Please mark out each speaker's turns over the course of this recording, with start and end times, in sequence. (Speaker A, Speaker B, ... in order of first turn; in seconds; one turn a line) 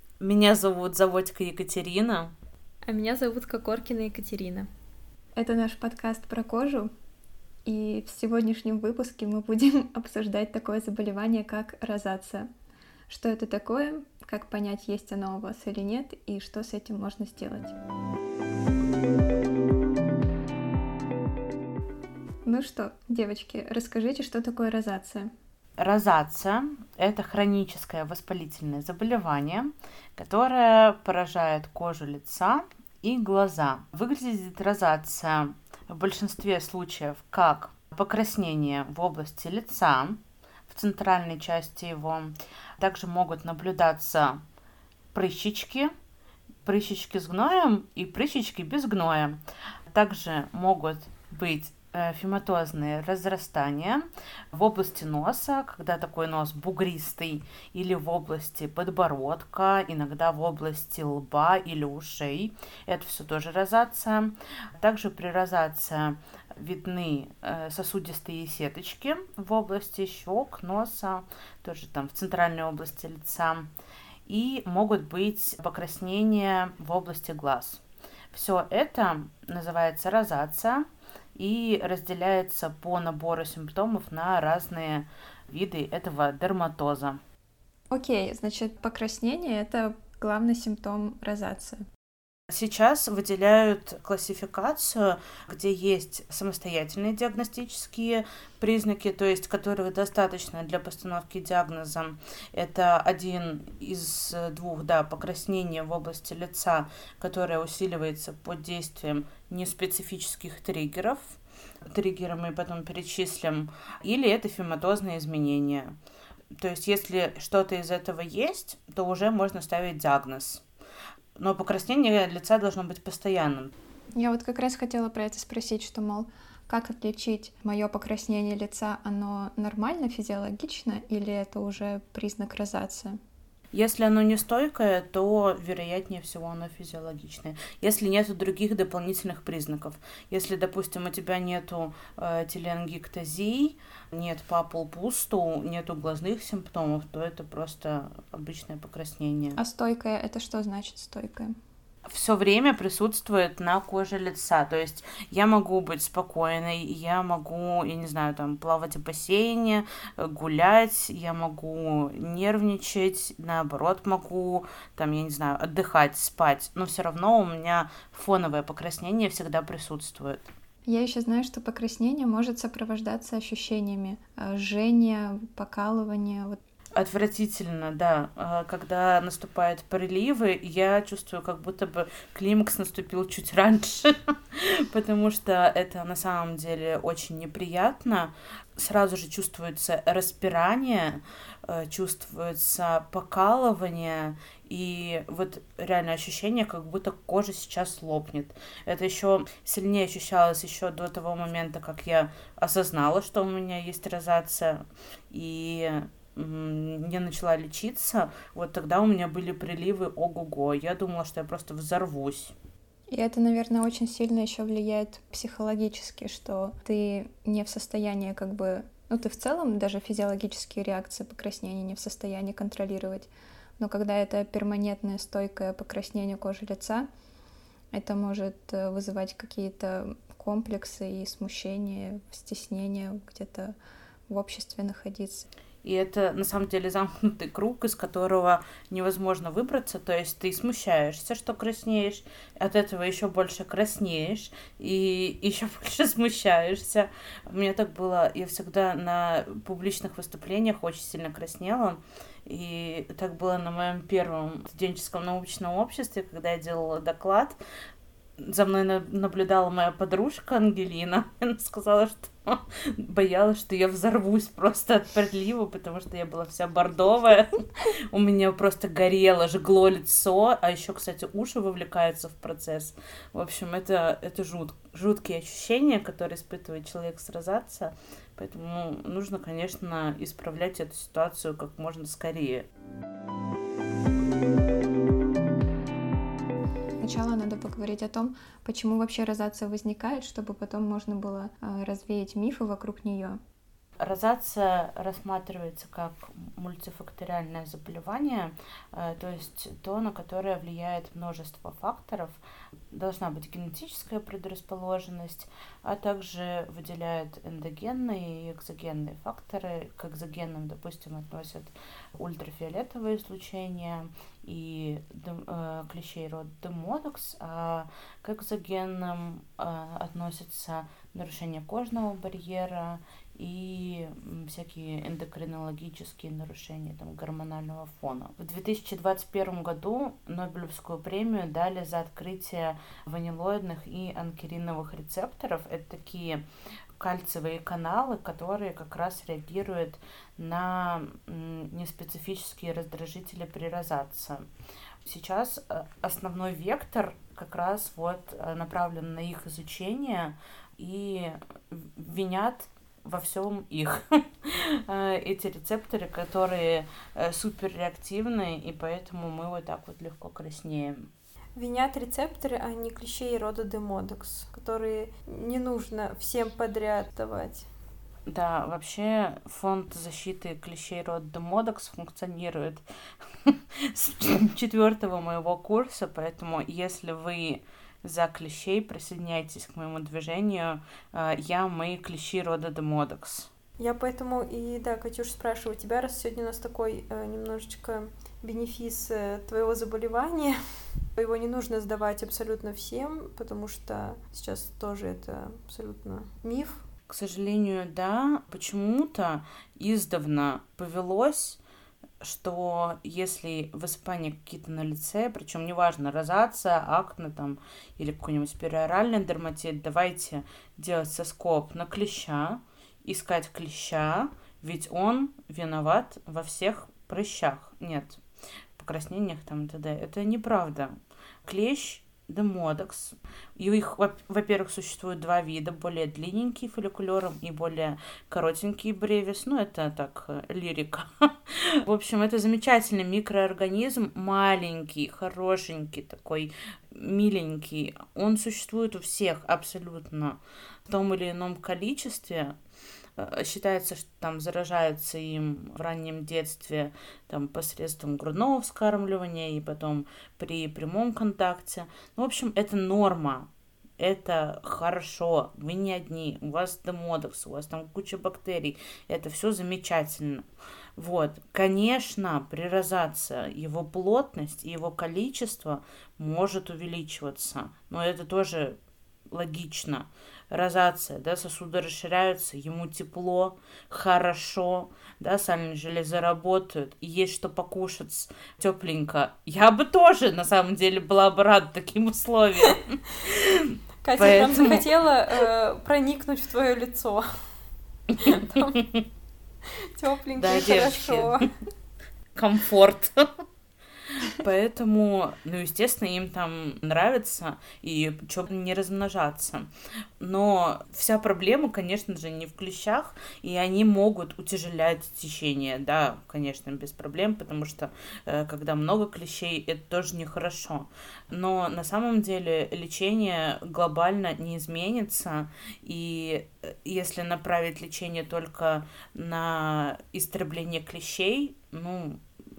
Speaker A: 0.2-2.3
Speaker B: 2.8-4.7
Speaker C: 5.3-6.9
Speaker C: 7.7-12.5
Speaker C: 13.1-17.8
Speaker C: 22.4-25.3
Speaker A: 25.8-44.4
Speaker A: 45.1-45.9
Speaker A: 46.6-73.7
Speaker A: 74.2-87.2
Speaker C: 87.9-91.8
Speaker A: 92.5-116.0
Speaker A: 116.5-120.6
Speaker A: 121.4-123.7
Speaker C: 124.2-133.2
Speaker A: 133.7-149.6
Speaker C: 149.6-151.5
Speaker A: 152.1-170.5
Speaker C: 170.8-176.6
Speaker A: 176.9-212.5
Speaker C: 213.1-227.1
Speaker C: 227.9-233.7
Speaker C: 234.3-235.5
Speaker A: 235.8-257.6
Speaker A: 258.4-282.7
Speaker C: 287.0-293.4
Speaker A: 294.0-302.4
Speaker A: 302.9-336.4
Speaker A: 337.0-344.4
Speaker A: 345.0-361.1
Speaker B: 361.6-367.7
Speaker A: 368.3-383.5
Speaker B: 383.8-390.6
Speaker B: 391.1-396.8
Speaker A: 397.1-401.6
Speaker A: 402.2-418.2
Speaker A: 418.8-420.9
Speaker A: 421.4-442.6
Speaker A: 443.1-468.8
Speaker A: 469.3-484.9
Speaker B: 484.0-487.3
Speaker B: 488.2-488.8
Speaker A: 488.2-489.0
Speaker B: 489.8-491.5
Speaker A: 490.4-491.4
Speaker A: 492.3-493.3
Speaker A: 494.1-499.7
Speaker A: 500.2-522.2